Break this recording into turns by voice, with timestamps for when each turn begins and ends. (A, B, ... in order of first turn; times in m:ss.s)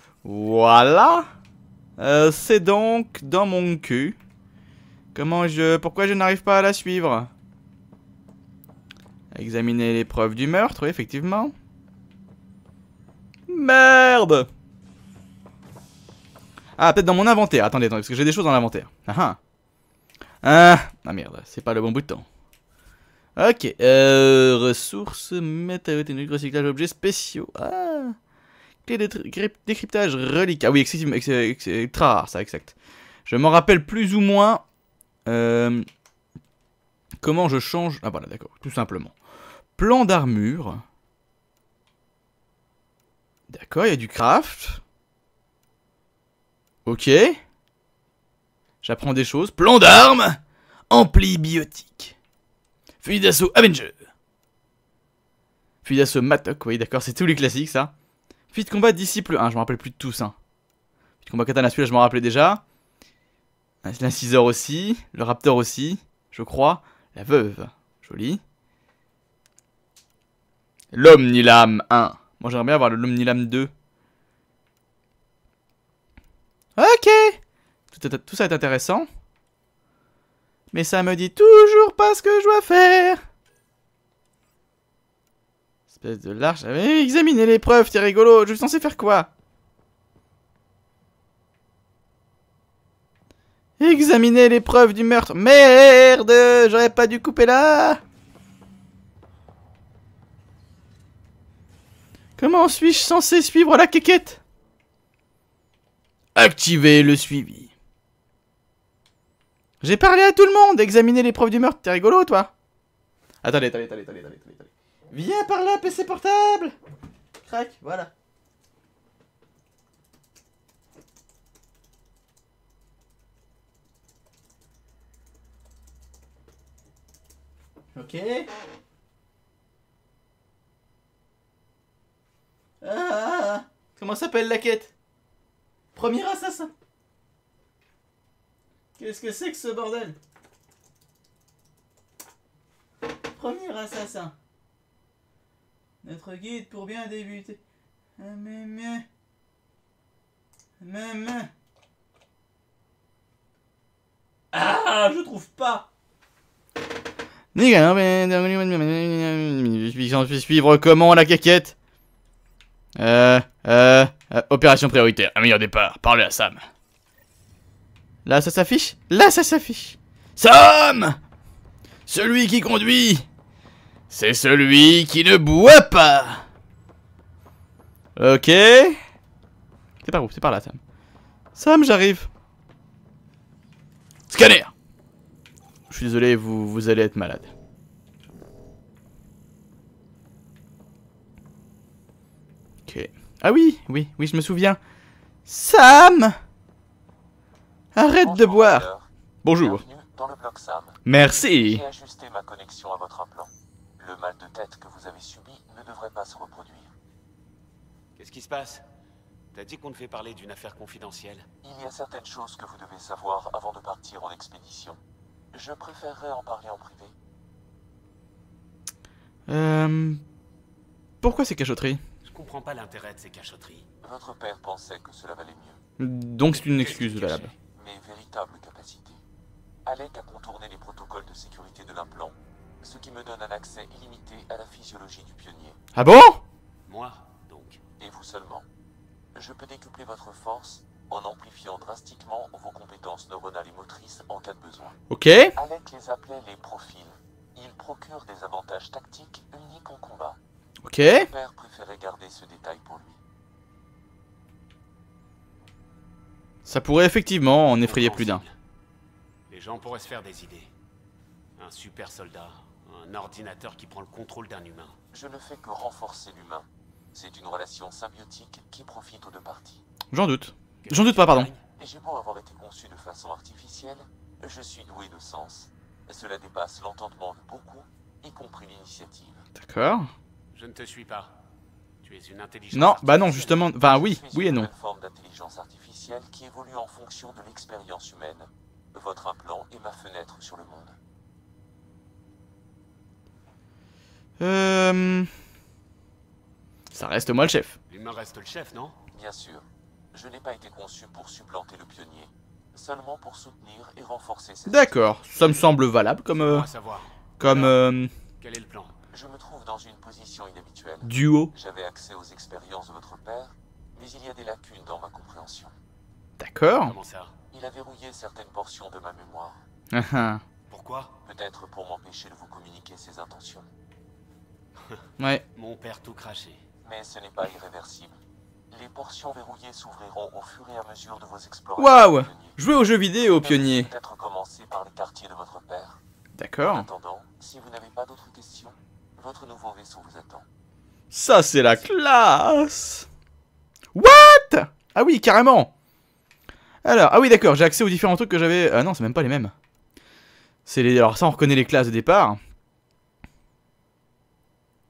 0:00.2-0:01.3 A
0:02.0-0:04.2 A
0:05.1-0:07.3 A
0:09.3-0:11.5 A
0:13.5-0:14.5 A
0:16.8-0:19.4 A
0:20.4-0:22.2 A
0:23.4-0:28.2 A
0:28.8-0:32.7 A
0:33.2-0:34.6 A
0:35.2-0:35.9 A
0:37.2-0:39.1 A
0:39.8-0:40.8 A
0:43.5-0:44.8 A
0:46.8-0:47.4 A
0:48.8-0:52.2 A
0:53.0-0:54.1 A
0:55.8-0:57.9 A
0:58.5-1:00.4 A
1:01.2-1:02.6 A
1:03.8-1:08.4 A
1:10.9-1:13.7 A
1:16.8-1:17.4 A
1:17.9-1:19.1 A
1:20.7-1:23.2 A
1:25.9-1:29.3 A
1:33.8-1:38.0 A
1:42.4-1:44.4 A
1:46.3-1:47.7 A
1:49.8-1:52.5 A
1:53.4-1:56.7 A
1:57.4-1:58.1 A
2:07.9-2:08.5 A
2:12.8-2:14.9 A
2:15.9-2:16.7 A
2:19.0-2:20.2 A
2:23.3-2:24.3 A
2:26.0-2:27.6 A
2:28.2-2:29.0 A
2:30.8-2:31.5 A
2:34.5-2:35.9 A
2:37.5-2:41.7 A
2:43.0-2:46.7 A
2:48.2-2:51.2 A
2:52.1-2:53.2 A
2:54.1-2:56.4 A
2:58.2-2:59.0 A
3:00.0-3:00.8 A
3:01.5-3:02.3 A
3:04.3-3:04.7 A
3:05.9-3:07.5 A
3:12.9-3:14.8 A
3:15.4-3:16.4 A
3:17.9-3:18.8 A
3:18.2-3:19.1 B
3:19.4-3:19.8 A
3:19.6-3:26.9 B
3:21.0-3:21.8 A
3:28.2-3:28.8 C
3:29.5-3:31.4 C
3:31.6-3:35.0 B
3:35.5-3:37.1 B
3:39.5-3:40.2 A
3:41.2-3:42.0 A
3:42.2-3:43.9 C
3:44.0-3:45.8 B
3:46.0-3:47.5 A
3:46.7-3:49.2 B
3:49.8-3:55.8 B
3:55.9-3:56.4 A
3:56.9-3:57.8 C
3:58.0-3:58.6 B
3:59.3-4:05.0 B
4:05.1-4:05.6 A
4:05.5-4:10.4 B
4:10.8-4:11.3 A
4:11.1-4:13.2 B
4:16.6-4:18.4 A
4:17.8-4:18.5 C
4:19.5-4:20.7 C
4:21.6-4:24.9 C
4:25.1-4:29.8 B
4:30.1-4:31.5 A
4:30.8-4:31.6 C
4:31.8-4:39.4 B
4:39.6-4:40.1 A
4:40.5-4:41.3 C
4:42.0-4:43.7 C
4:42.7-4:44.7 A
4:43.8-4:50.9 B
4:54.4-4:55.3 A
4:56.9-4:57.8 A
4:57.9-4:59.0 C
4:59.1-5:05.1 B
5:04.6-5:06.7 A
5:06.4-5:07.8 C
5:07.4-5:08.1 A
5:08.4-5:08.9 C
5:09.1-5:15.7 B
5:11.0-5:11.5 A
5:16.4-5:16.9 A
5:16.8-5:17.3 C
5:17.5-5:19.6 B
5:19.9-5:20.4 A
5:20.7-5:21.2 C
5:21.2-5:23.7 B
5:25.2-5:25.4 A
5:25.6-5:26.6 C
5:26.8-5:28.2 B
5:28.7-5:32.6 B
5:31.8-5:33.9 A
5:33.2-5:36.0 B
5:36.4-5:36.9 A
5:36.6-5:40.4 B
5:41.1-5:43.1 A
5:43.9-5:45.7 A
5:46.8-5:49.5 A
5:50.6-5:52.4 A